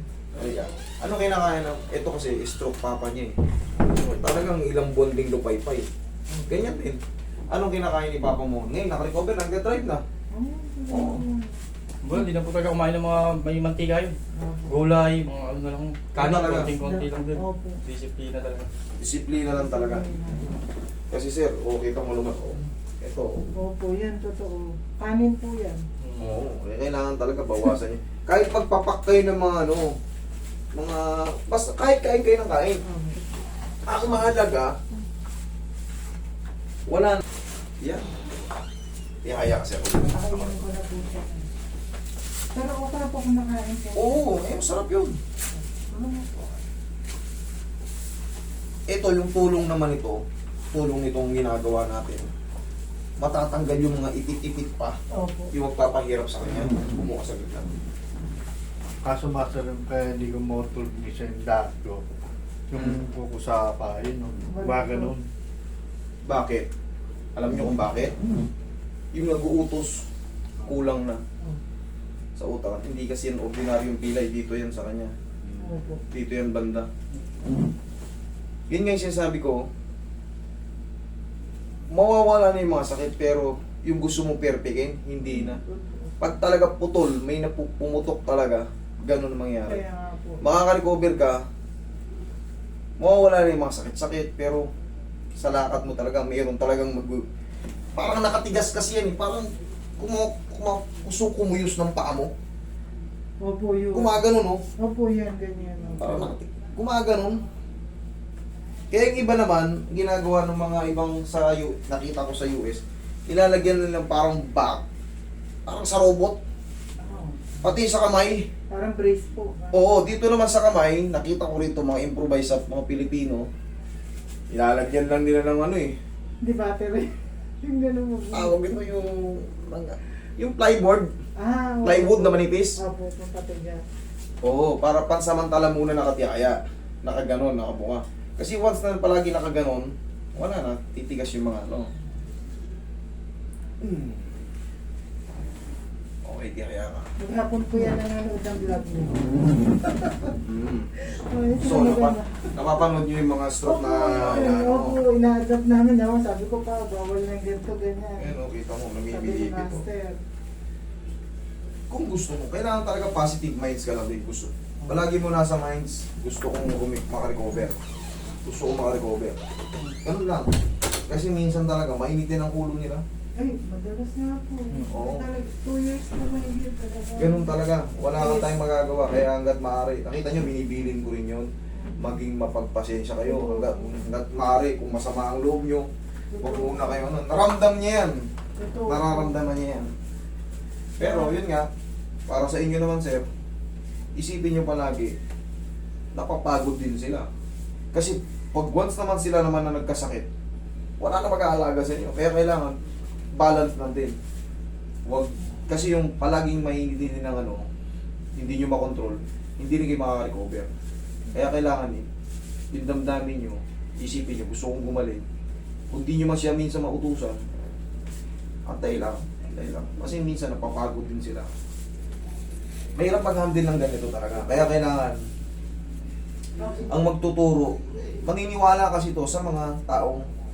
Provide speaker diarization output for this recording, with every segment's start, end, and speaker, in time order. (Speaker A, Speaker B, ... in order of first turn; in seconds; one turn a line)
Speaker A: 0.3-5.9
Speaker B: 6.3-6.6
Speaker A: 6.5-10.0
Speaker B: 10.3-11.6
Speaker A: 10.9-11.2
Speaker C: 12.0-18.7
Speaker B: 14.3-14.8
Speaker A: 16.1-16.7
Speaker B: 16.8-17.8
Speaker A: 19.0-20.1
Speaker B: 19.5-20.6
Speaker A: 21.1-23.3
Speaker B: 23.6-25.8
Speaker C: 26.0-26.4
Speaker A: 26.2-29.9
Speaker A: 30.7-32.8
Speaker B: 32.8-33.3
Speaker A: 33.9-34.7
Speaker A: 36.9-37.2
Speaker A: 37.8-38.1
Speaker A: 39.2-40.6
Speaker B: 40.0-41.5
Speaker B: 42.5-44.5
Speaker A: 43.9-45.2
Speaker B: 45.5-46.6
Speaker A: 48.9-50.2
Speaker A: 50.7-52.3
Speaker A: 53.2-55.0
Speaker B: 55.1-55.5
Speaker A: 55.5-57.7
Speaker D: 59.0-62.1
Speaker D: 62.7-65.3
Speaker A: 62.8-63.0
Speaker B: 64.5-65.2
Speaker A: 66.2-66.7
Speaker A: 67.3-68.1
Speaker A: 69.1-70.1
Speaker A: 70.7-71.2
Speaker A: 72.4-75.1
Speaker D: 75.4-75.7
Speaker B: 75.6-76.0
Speaker A: 76.1-76.9
Speaker A: 78.7-79.7
Speaker A: 81.9-85.6
Speaker B: 85.3-86.2
Speaker A: 86.2-89.8
Speaker B: 89.6-90.4
Speaker A: 90.4-91.4
Speaker A: 93.0-94.7
Speaker A: 95.4-97.2
Speaker A: 98.0-99.5
Speaker A: 100.0-102.3
Speaker B: 103.4-104.2
Speaker A: 103.9-104.6
Speaker B: 104.8-106.3
Speaker A: 105.9-107.4
Speaker A: 108.9-114.8
Speaker A: 115.7-116.4
Speaker B: 117.0-117.7
Speaker A: 117.6-118.5
Speaker B: 118.7-119.9
Speaker A: 119.7-123.5
Speaker A: 124.5-126.0
Speaker B: 126.4-128.6
Speaker A: 128.3-131.1
Speaker B: 131.4-133.8
Speaker A: 131.8-132.8
Speaker A: 134.4-141.9
Speaker A: 143.8-144.4
Speaker A: 146.2-147.1
Speaker B: 147.2-149.9
Speaker A: 150.4-150.9
Speaker B: 151.1-152.5
Speaker A: 151.6-155.0
Speaker B: 153.6-158.3
Speaker A: 158.2-159.8
Speaker B: 159.1-160.2
Speaker A: 161.9-167.8
Speaker A: 168.4-169.4
Speaker A: 170.0-170.5
Speaker A: 171.1-173.0
Speaker B: 173.4-177.5
Speaker A: 174.8-175.3
Speaker A: 177.2-185.9
Speaker B: 178.2-178.5
Speaker B: 181.8-182.1
Speaker B: 183.2-184.0
Speaker B: 186.3-187.1
Speaker A: 186.4-188.3
Speaker B: 188.6-189.5
Speaker A: 188.9-189.9
Speaker A: 191.0-191.7
Speaker B: 191.0-191.4
Speaker A: 192.3-193.3
Speaker A: 194.2-195.1
Speaker A: 196.1-197.3
Speaker A: 197.9-200.3
Speaker A: 201.0-202.8
Speaker A: 203.3-204.2
Speaker A: 205.1-207.7
Speaker A: 208.3-210.7
Speaker A: 211.3-212.1
Speaker A: 212.7-215.2
Speaker A: 215.9-217.4
Speaker A: 218.7-221.5
Speaker A: 223.0-225.2
Speaker B: 226.6-227.1
Speaker A: 226.9-230.3